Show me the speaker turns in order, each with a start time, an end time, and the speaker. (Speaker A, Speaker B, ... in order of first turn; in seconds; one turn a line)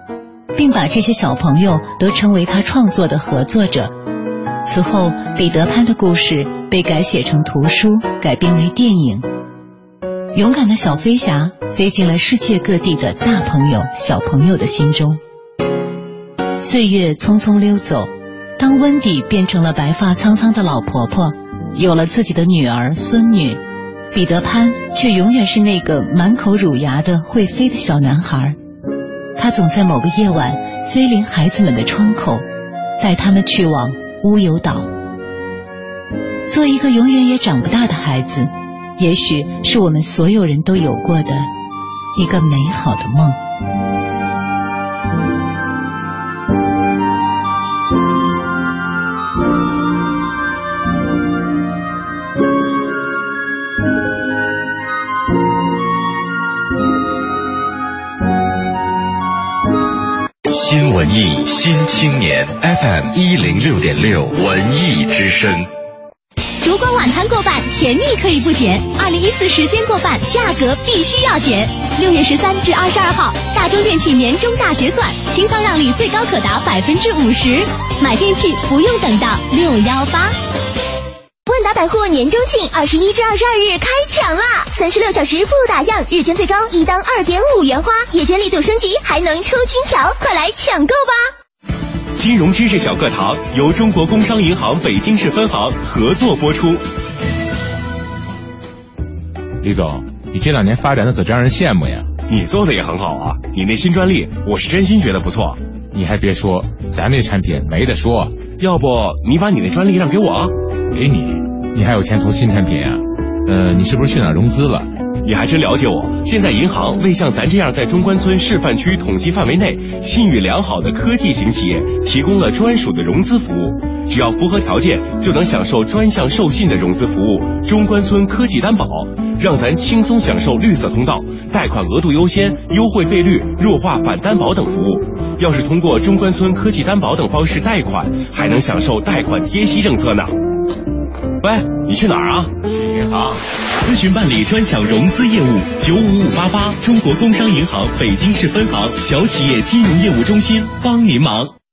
Speaker A: 0.5-3.9
Speaker A: 4.6-9.2
Speaker A: 10.3-15.2
Speaker A: 16.6-28.6
Speaker A: 29.4-32.4
Speaker A: 33.0-34.9
Speaker A: 36.5-41.5
Speaker A: 42.1-43.4
Speaker B: 60.5-65.7
Speaker C: 66.6-80.3
Speaker D: 81.5-91.2
Speaker E: 92.2-96.8
Speaker F: 99.6-102.1
Speaker E: 102.3-105.6
Speaker F: 105.9-108.4
Speaker E: 108.6-110.5
Speaker F: 110.9-114.9
Speaker E: 115.2-140.3
Speaker E: 141.4-142.5
Speaker F: 142.7-143.3
Speaker E: 143.8-151.5